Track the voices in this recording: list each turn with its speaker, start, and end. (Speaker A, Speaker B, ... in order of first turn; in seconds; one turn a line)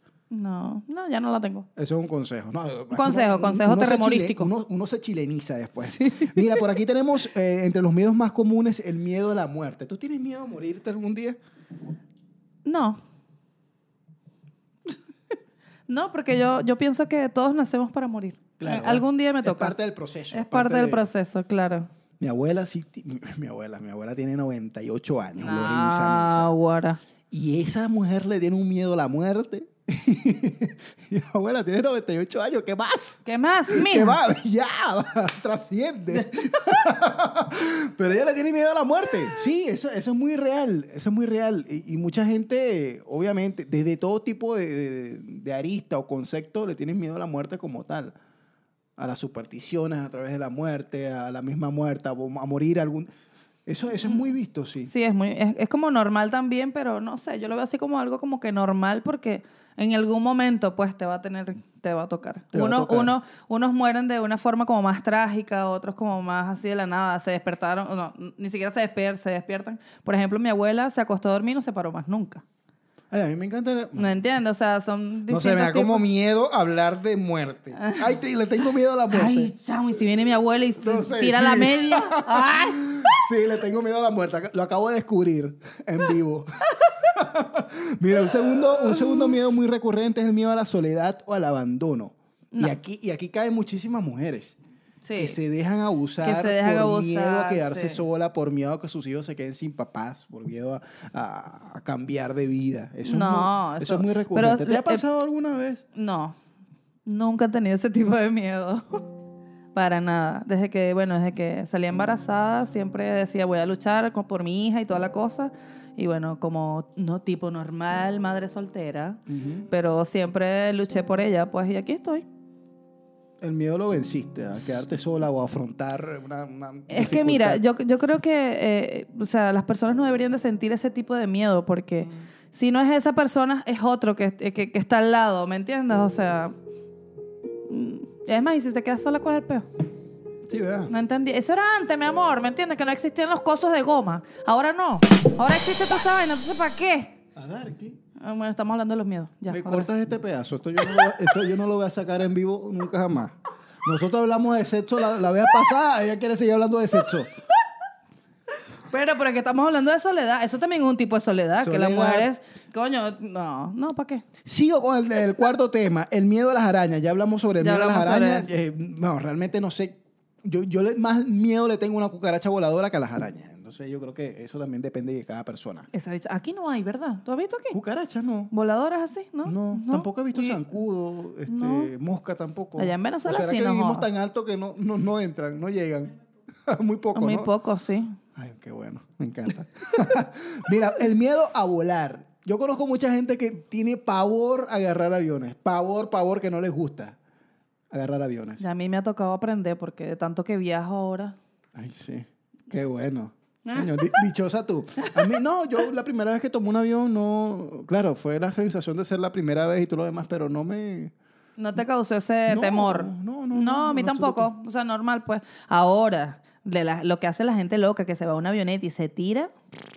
Speaker A: 0.3-1.7
Speaker B: 1.8-11.4
Speaker A: 2.9-4.5
Speaker A: 5.9-6.7
Speaker A: 12.6-13.0
Speaker A: 15.9-19.7
Speaker B: 18.6-21.1
Speaker A: 20.3-21.9
Speaker B: 22.2-26.5
Speaker A: 25.4-27.0
Speaker B: 27.3-48.1
Speaker A: 33.2-34.2
Speaker B: 49.0-53.1
Speaker B: 53.6-54.9
Speaker A: 54.9-72.4
Speaker B: 62.5-63.1
Speaker B: 73.1-74.2
Speaker A: 74.0-76.0
Speaker B: 75.3-79.5
Speaker A: 77.8-78.1
Speaker A: 79.1-83.2
Speaker B: 80.8-94.6
Speaker A: 95.0-95.4
Speaker B: 95.2-105.8
Speaker A: 96.2-98.0
Speaker A: 103.0-105.0
Speaker A: 105.9-106.3
Speaker A: 107.0-109.0
Speaker A: 109.7-122.2
Speaker B: 119.3-119.7
Speaker B: 123.4-127.6
Speaker A: 126.9-136.5
Speaker A: 137.7-139.7
Speaker B: 140.5-140.9
Speaker A: 140.9-147.2
Speaker B: 147.3-148.0
Speaker A: 148.2-149.9
Speaker B: 149.5-157.3
Speaker A: 158.9-164.2
Speaker B: 161.6-162.3
Speaker B: 164.4-175.9
Speaker A: 167.6-168.5
Speaker A: 175.9-177.8
Speaker B: 177.7-178.5
Speaker A: 178.5-180.6
Speaker B: 179.4-186.1
Speaker A: 181.5-181.9
Speaker A: 182.8-184.1
Speaker B: 186.7-187.5
Speaker A: 187.1-188.2
Speaker B: 188.3-197.2
Speaker B: 197.9-198.6
Speaker A: 198.6-201.3
Speaker B: 201.7-211.1
Speaker A: 203.6-204.2
Speaker A: 205.0-205.2
Speaker A: 211.6-219.5
Speaker B: 212.5-214.5